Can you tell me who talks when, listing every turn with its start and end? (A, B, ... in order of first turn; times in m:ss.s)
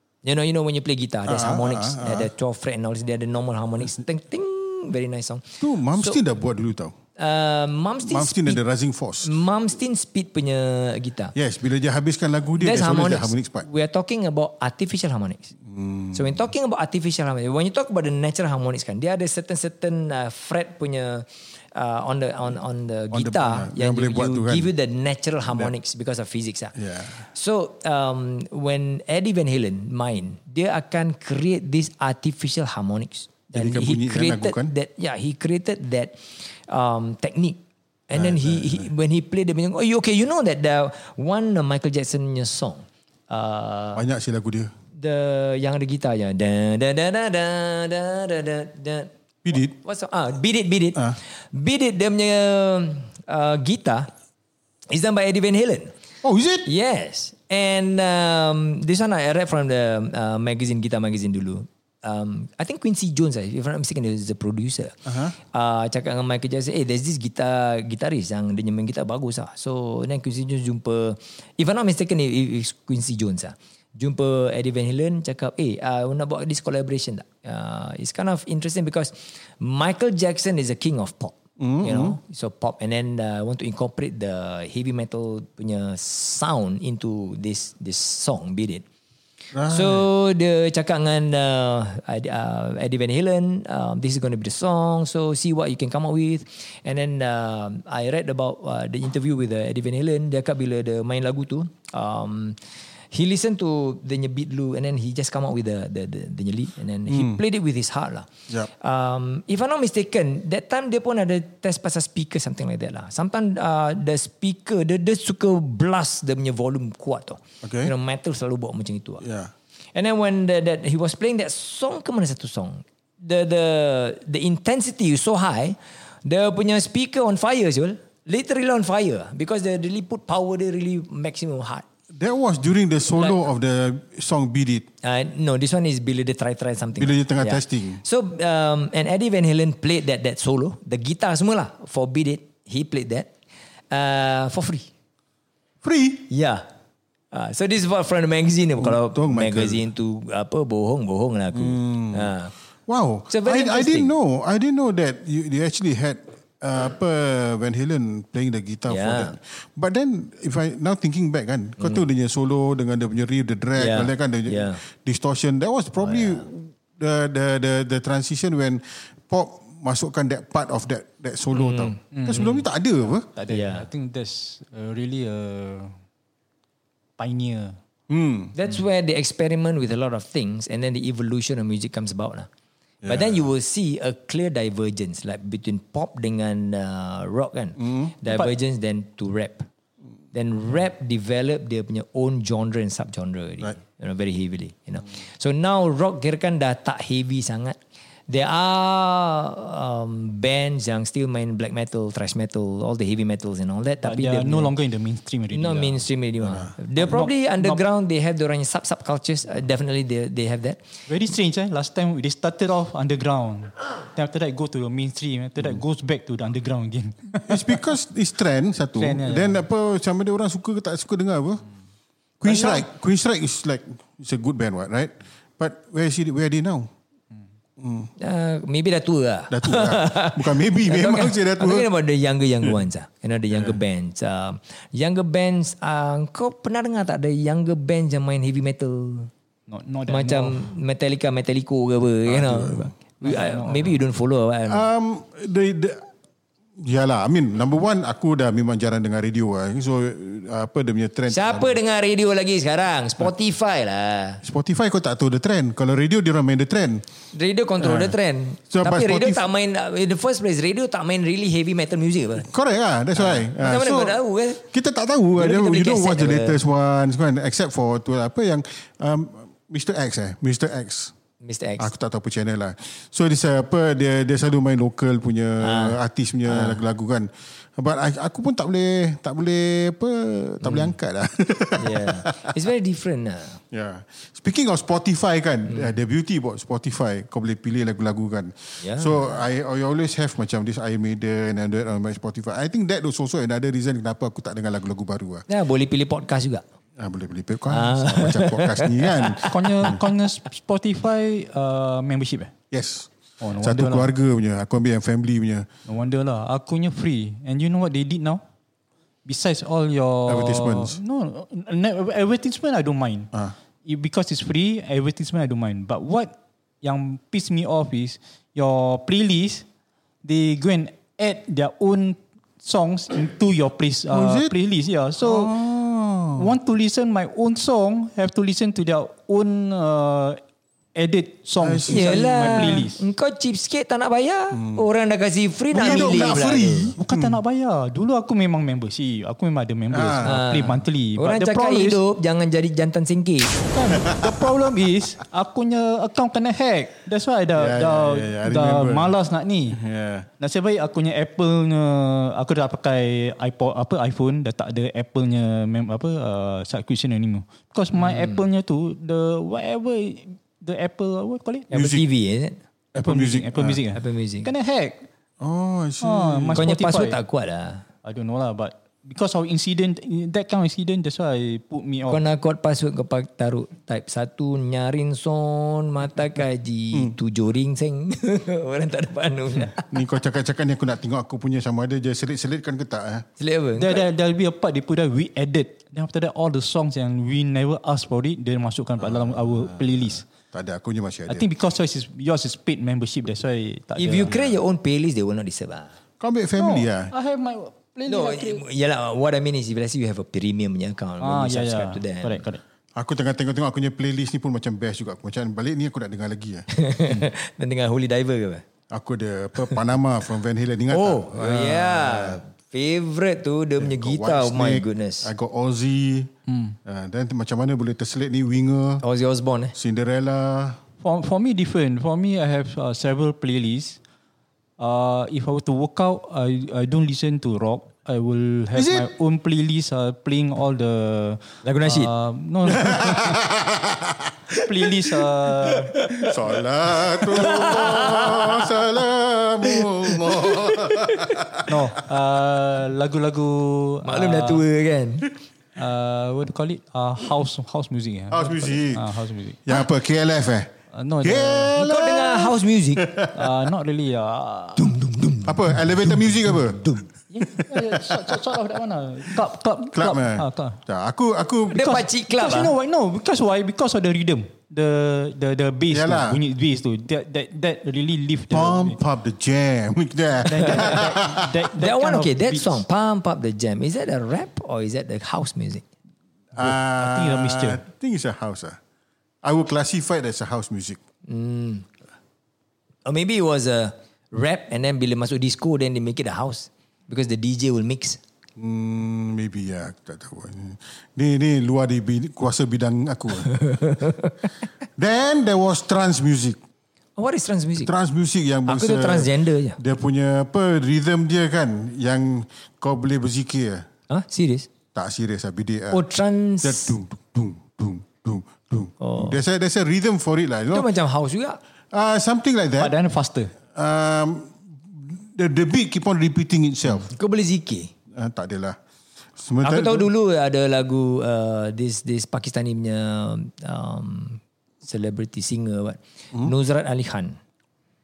0:00.2-0:06.2 A
0:01.2-0:02.3 B
0:05.6-0:06.9 B
0:07.2-0:08.6 A
0:08.0-0:09.3 B
0:09.2-0:11.3 A
0:11.3-0:13.7 B
0:12.6-0:15.5 A
0:15.6-0:16.4 B
0:16.1-0:26.7 A
0:23.1-0:24.7 B
0:26.8-0:27.2 B
0:27.2-0:44.0 A
0:33.5-0:34.7 B
0:38.1-0:38.9 B
0:43.9-0:44.7 B
0:45.0-0:54.1 A
0:49.4-0:49.7 B
0:54.9-0:55.9 A
0:56.2-0:56.7 B
0:56.6-1:05.0 A
1:05.0-1:05.3 B
1:05.5-1:28.8 A
1:21.6-1:22.2 B
1:29.5-1:30.1 B
1:29.7-1:42.6 A
1:43.1-1:59.2 A
1:47.1-1:47.4 B
1:57.6-1:57.9 B
1:59.2-1:59.5 B
1:59.9-2:11.8 A
2:12.1-2:14.9 B
2:15.0-2:23.3 A
2:17.0-2:18.0 B
2:23.9-2:24.9 A
2:25.8-2:26.3 B
2:26.3-2:26.6 A
2:27.3-2:32.5 A
2:28.8-2:29.8 B
2:31.5-2:32.3 B
2:32.9-2:53.3 B
2:33.3-2:34.1 A
2:38.9-2:39.3 A
2:43.8-2:44.8 A
2:46.0-2:46.4 A
2:51.5-2:52.0 A
2:52.1-2:52.6 C
2:53.3-2:55.9 C
2:53.5-2:53.9 A
2:57.2-2:57.8 C
2:58.1-2:58.5 B
2:58.5-3:02.5 A
3:03.0-3:03.5 B
3:03.0-3:09.7 A
3:07.8-3:08.1 B
3:10.3-3:17.8 A
3:18.3-3:24.7 A
3:24.0-3:26.0 C
3:25.5-3:30.8 A
3:26.4-3:26.7 B
3:27.0-3:27.8 C
3:31.1-3:37.8 C
3:37.5-3:41.6 B
3:38.9-3:39.6 C
3:42.4-3:46.9 B
3:42.4-3:42.8 A
3:47.8-3:48.1 B
3:48.2-3:59.3 A
3:49.5-3:51.9 B
3:53.5-3:53.8 B
3:59.7-4:00.7 C
4:00.1-4:04.8 A
4:02.2-4:02.9 B
4:03.2-4:04.0 C
4:04.7-4:06.1 B
4:06.8-4:11.8 B
4:11.3-4:14.4 A
4:14.4-4:17.0 B
4:17.3-4:22.5 A
4:17.8-4:18.1 B
4:18.7-4:19.4 B
4:22.4-4:31.1 B
4:23.2-4:24.6 A
4:25.4-4:26.6 A
4:31.4-4:31.9 A
4:31.8-4:42.4 B
4:35.6-4:36.8 A
4:40.6-4:40.9 A
4:41.8-4:43.6 A
4:43.7-4:55.4 B
4:48.8-4:49.4 A
4:55.5-4:56.6 A
4:57.0-5:00.0 B
4:57.7-4:59.9 A
4:59.5-5:02.5 C
5:02.7-5:05.7 B
5:03.4-5:04.1 C
5:05.9-5:08.4 C
5:09.2-5:13.3 C
5:10.2-5:11.0 B
5:13.8-5:19.6 C
5:20.2-5:25.6 C
5:24.1-5:24.5 B
5:25.2-5:26.5 B
5:26.4-5:30.4 C
5:31.0-5:33.0 C
5:31.6-5:32.8 B
5:31.9-5:36.9 A
5:34.5-5:34.8 B
5:35.7-5:37.4 B
5:35.8-5:36.3 C
5:37.0-5:42.0 C
5:39.9-5:40.4 B
5:40.2-5:43.6 A
5:43.7-5:49.8 C
5:44.0-5:44.3 B
5:47.6-5:49.1 B
5:49.7-5:50.3 B
5:50.4-6:01.7 C
5:58.0-5:58.4 A
6:01.7-6:02.0 B
6:01.7-6:02.6 A
6:02.9-6:03.8 B
6:03.0-6:05.0 C
6:03.9-6:04.5 A
6:05.4-6:06.7 B
6:06.0-6:07.2 C
6:06.6-6:07.8 A
6:08.0-6:12.2 C
6:12.1-6:19.9 A
6:19.9-6:23.2 B
6:23.4-6:24.0 A
6:23.8-6:30.2 C
6:29.0-6:29.8 B
6:30.5-6:31.5 B
6:31.3-6:34.4 C
6:34.0-6:35.9 A
6:36.2-6:37.1 B
6:36.6-6:38.6 C
6:38.1-6:42.4 A
6:41.2-6:42.6 C
6:42.9-6:46.7 B
6:46.7-6:48.6 A
6:48.9-6:52.4 B
6:50.9-6:55.3 A
6:53.8-6:56.3 B
6:56.5-6:56.8 C
6:56.8-6:59.0 B
6:59.0-6:59.7 A
6:59.7-7:00.8 B
7:01.0-7:04.0 C
7:04.8-7:13.2 C
7:08.7-7:09.1 B
7:11.6-7:12.1 A
7:12.6-7:14.4 B
7:14.5-7:15.9 C
7:15.7-7:16.3 A
7:16.2-7:21.7 B
7:17.0-7:18.8 A
7:19.6-7:21.4 A
7:21.6-7:24.6 C
7:24.0-7:25.3 A
7:25.8-7:29.7 C
7:28.3-7:29.1 B
7:29.6-7:33.6 B
7:30.9-7:31.7 C
7:31.7-7:33.1 A
7:33.3-7:35.0 C
7:34.8-7:37.1 A
7:35.4-7:36.8 B
7:37.3-7:40.8 C
7:37.5-7:38.4 B
7:39.9-7:42.0 B
7:41.7-7:42.7 A
7:41.7-7:49.0 C
7:45.9-7:46.4 B
7:48.5-7:51.6 B
7:50.4-7:52.8 C
7:51.8-7:55.8 A
7:56.5-7:58.8 B
7:56.6-7:57.8 C
7:59.4-8:01.0 B
8:01.3-8:01.8 A
8:03.0-8:08.2 A
8:08.6-8:13.6 B
8:13.5-8:14.3 A
8:15.0-8:16.6 B
8:17.2-8:17.9 A
8:17.8-8:23.9 B
8:18.7-8:19.8 A
8:24.1-8:24.7 A
8:24.9-8:26.0 B
8:25.9-8:26.9 A
8:26.6-8:30.9 B
8:29.0-8:29.4 A
8:30.7-8:31.6 A
8:31.9-8:32.9 B
8:32.8-8:33.5 C
8:33.7-8:37.1 B
8:37.0-8:37.9 A
8:38.1-8:38.8 B
8:39.4-8:40.1 B
8:39.6-8:47.4 A